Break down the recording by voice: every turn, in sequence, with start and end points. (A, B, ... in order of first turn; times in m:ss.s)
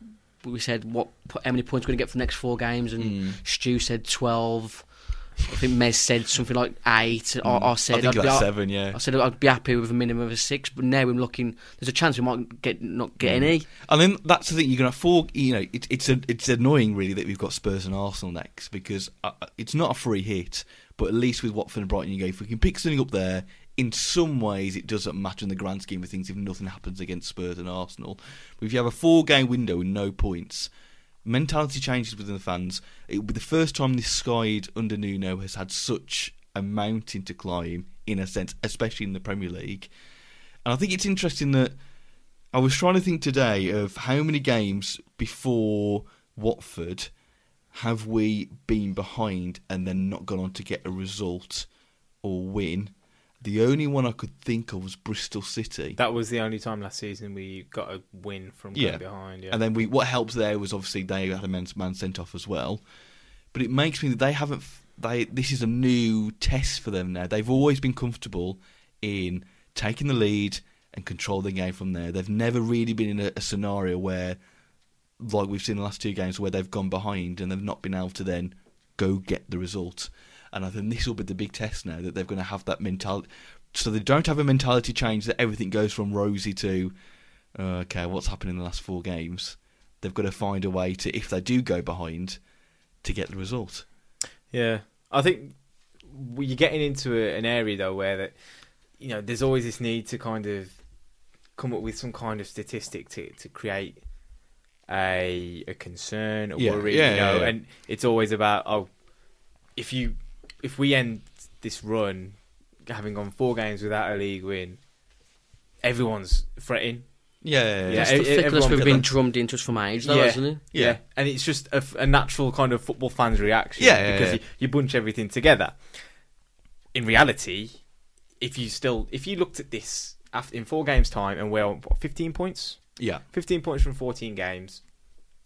0:00.4-0:04.9 A
0:03.0-0:03.4 B
0:05.4-0:13.7 A
0:07.4-0:09.0 B
0:13.2-0:30.7 B
0:31.2-0:39.9 B
0:40.6-0:41.8 B
0:42.5-0:47.1 B
0:47.7-0:51.7 B
0:52.2-0:56.0 B
0:56.0-0:59.6 C
0:58.8-1:02.8 B
1:03.5-1:14.4 B
1:15.2-1:26.9 B
1:27.6-1:32.4 B
1:33.0-1:33.9 B
1:34.5-1:38.4 C
1:39.0-1:40.8 C
1:41.6-1:44.0 C
1:44.9-1:48.9 C
1:46.6-1:47.6 B
1:49.8-1:54.8 C
1:55.8-1:57.0 C
1:57.4-1:59.1 B
1:57.9-1:59.1 C
1:57.9-2:00.6 A
2:00.0-2:06.0 C
2:00.7-2:01.0 B
2:03.8-2:04.4 B
2:06.9-2:07.8 C
2:08.4-2:14.8 C